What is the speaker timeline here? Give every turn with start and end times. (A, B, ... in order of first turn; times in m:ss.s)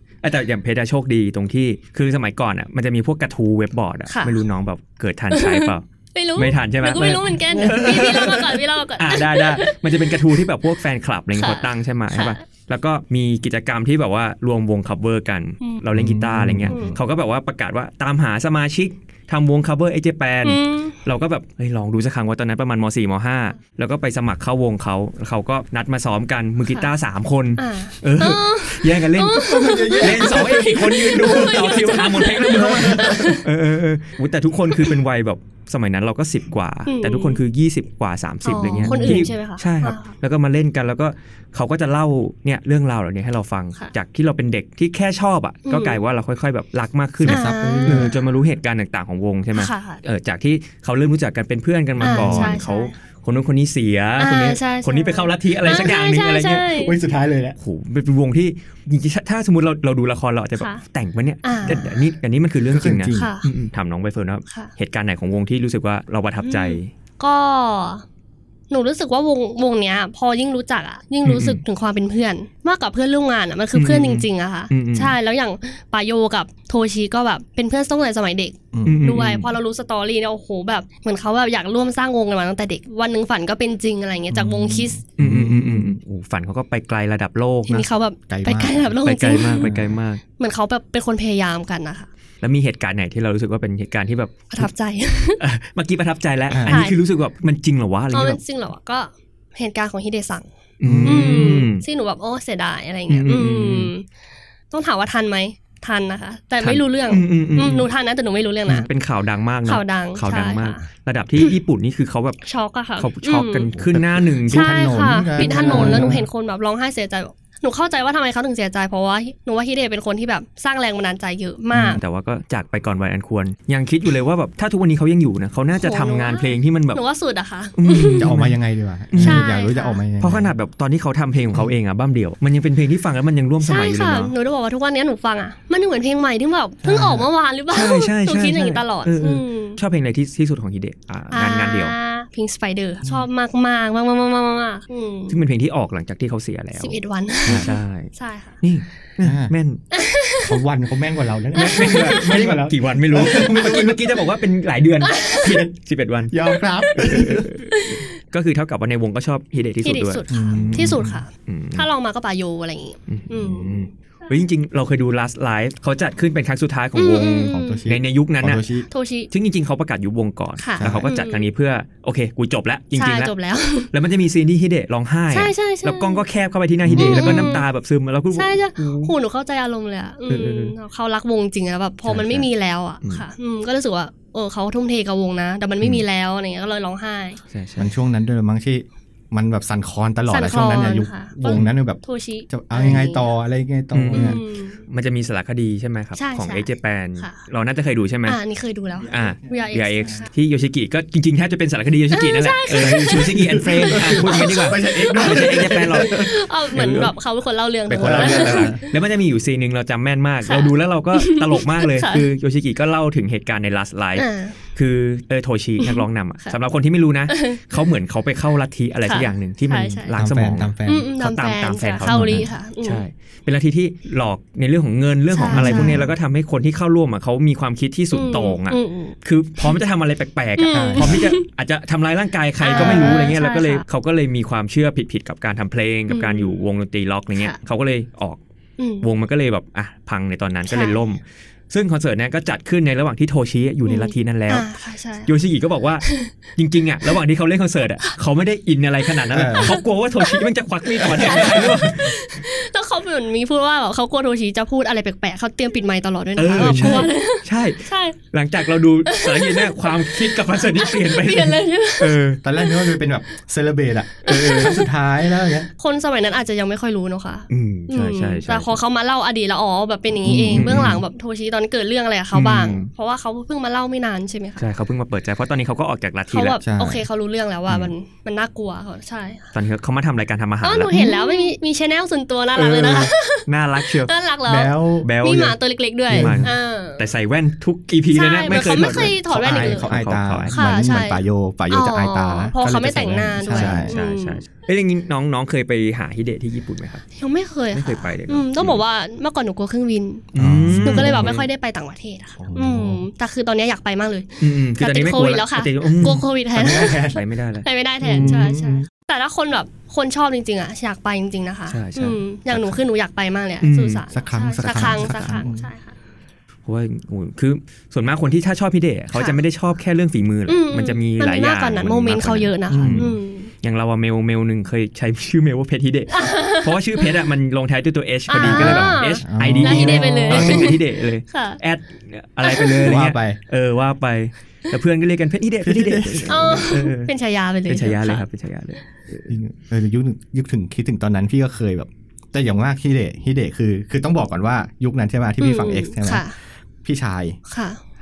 0:00.2-0:05.8 A
0:04.1-0:04.4 B
0:05.3-0:10.4 B
0:06.4-0:56.8 A
0:07.7-0:08.3 C
0:11.3-0:12.4 B
0:15.9-0:17.0 C
0:16.7-0:17.0 B
0:20.4-0:21.0 B
0:27.6-0:33.4 B
0:29.4-0:31.8 C
0:32.4-0:33.4 C
0:36.9-0:37.4 B
0:38.4-0:40.1 B
0:38.6-0:39.3 C
0:45.6-0:46.0 B
0:47.2-0:48.1 C
0:47.3-0:48.1 B
0:49.6-0:50.0 B
0:52.0-0:52.6 C
0:52.0-0:52.9 B
0:54.2-0:57.0 B
0:56.8-0:57.6 C
0:57.6-1:06.9 A
1:01.4-1:02.0 B
1:02.6-1:03.3 C
1:03.1-1:03.5 B
1:04.5-1:04.7 B
1:06.4-1:08.0 B
1:08.7-1:25.0 B
1:11.2-1:11.6 A
1:13.8-1:15.2 A
1:18.7-1:19.0 C
1:18.8-1:19.5 A
1:24.5-1:26.0 C
1:25.0-1:27.8 A
1:27.7-1:28.9 C
1:27.7-1:29.6 B
1:29.0-1:30.2 A
1:29.6-1:30.0 C
1:30.4-1:32.1 B
1:32.4-1:34.7 A
1:34.5-1:35.4 B
1:35.4-1:38.4 A
1:36.5-1:36.9 C
1:36.7-1:37.0 B
1:38.1-1:40.5 B
1:40.8-1:41.8 A
1:40.8-1:41.4 C
1:41.0-1:44.1 B
1:43.1-1:43.9 A
1:44.7-1:48.9 B
1:46.6-1:47.9 A
1:48.7-1:52.4 A
1:49.6-1:50.9 B
1:52.4-1:53.7 B
1:53.0-1:56.2 A
1:53.8-1:56.2 C
1:54.5-2:02.0 B
2:01.7-2:02.0 C
2:02.0-2:07.0 A
2:05.8-2:08.3 B
2:07.8-2:08.6 A
2:08.2-2:10.5 C
2:09.1-2:09.5 A
2:09.2-2:10.0 B
2:10.2-2:14.3 A
2:13.6-2:19.8 B
2:16.8-2:17.3 C
2:17.7-2:22.0 A
2:21.3-2:25.4 B
2:25.3-2:29.8 A
2:26.8-2:28.6 B
2:29.2-2:29.5 C
2:29.9-2:30.6 B
2:30.4-2:34.2 C
2:31.6-2:32.2 B
2:31.6-2:36.4 A
2:35.0-2:35.6 B
2:36.3-2:37.5 C
2:36.8-2:38.1 B
2:37.0-2:41.9 A
2:39.8-2:44.4 B
2:40.3-2:41.2 C
2:43.1-2:48.6 A
2:47.0-2:47.8 B
2:47.5-2:48.9 C
2:48.9-2:49.3 B
2:49.3-2:53.3 A
2:50.6-2:51.5 B
2:50.8-2:51.1 C
2:52.9-2:53.9 B
2:53.9-2:59.1 A
2:55.3-2:56.2 B
2:56.8-2:57.6 C
2:57.0-2:57.6 B
2:58.3-3:07.4 B
3:00.3-3:00.8 A
3:02.1-3:02.4 A
3:07.5-3:07.9 A
3:07.8-3:14.4 C
3:10.3-3:13.3 B
3:11.4-3:11.7 A
3:13.9-3:18.4 A
3:14.1-3:14.8 B
3:16.2-3:17.4 B
3:18.3-3:20.3 B
3:19.1-3:27.1 A
3:22.1-3:28.9 B
3:22.7-3:27.0 C
3:27.9-3:28.8 C
3:27.9-3:58.4 A
3:30.4-3:32.3 B
3:34.2-3:34.6 B
3:35.8-3:36.6 B
3:37.3-3:37.6 B
3:39.1-3:40.1 B
3:40.1-3:41.1 C
3:40.9-3:43.0 B
3:42.0-3:42.5 C
3:45.3-3:46.0 B
3:45.4-3:46.1 C
3:48.1-3:49.8 B
3:50.6-3:51.4 B
3:50.7-3:51.2 C
3:52.6-3:53.8 B
3:52.8-3:53.3 C
3:56.1-3:56.6 B
3:58.8-3:59.1 B
3:59.0-4:04.7 A
4:00.7-4:01.0 B
4:03.9-4:05.4 B
4:05.2-4:12.2 A
4:06.0-4:06.4 B
4:09.3-4:09.7 C
4:09.6-4:10.5 B
4:11.0-4:18.2 B
4:16.4-4:22.4 A
4:16.5-4:17.0 C
4:19.1-4:23.0 B
4:22.4-4:25.7 C
4:24.3-4:24.8 A
4:24.3-4:34.6 B
4:27.5-4:28.8 A
4:30.2-4:31.0 C
4:30.5-4:31.0 A
4:32.3-4:32.9 A
4:34.6-4:36.6 A
4:36.3-4:39.5 B
4:36.6-4:37.0 C
4:37.7-4:37.9 A
4:39.5-4:41.5 A
4:40.6-4:47.0 B
4:42.6-4:44.1 A
4:44.5-4:45.1 C
4:45.0-4:50.6 A
4:46.1-4:46.5 C
4:48.1-4:50.0 B
4:48.5-4:54.0 C
4:50.5-4:54.4 B
4:53.4-4:57.0 A
4:57.2-5:07.1 B
4:57.7-4:58.8 A
5:00.4-5:01.3 C
5:00.4-5:01.5 A
5:02.4-5:03.1 C
5:04.4-5:06.2 A
5:06.0-5:07.2 C
5:07.0-5:08.5 A
5:07.6-5:15.9 B
5:08.0-5:08.9 C
5:11.7-5:12.6 A
5:13.6-5:14.0 A
5:14.1-5:15.7 C
5:14.6-5:15.4 A
5:16.6-5:37.1 A
5:19.1-5:19.4 B
5:20.5-5:23.5 B
5:22.7-5:23.2 C
5:26.1-5:27.1 B
5:28.3-5:31.6 B
5:28.4-5:30.8 C
5:32.4-5:32.9 B
5:32.8-5:33.4 C
5:35.6-5:36.6 C
5:36.3-5:38.3 B
5:37.7-5:39.3 A
5:39.3-5:46.3 C
5:45.4-5:46.3 B
5:46.8-5:47.4 C
5:47.5-5:47.8 B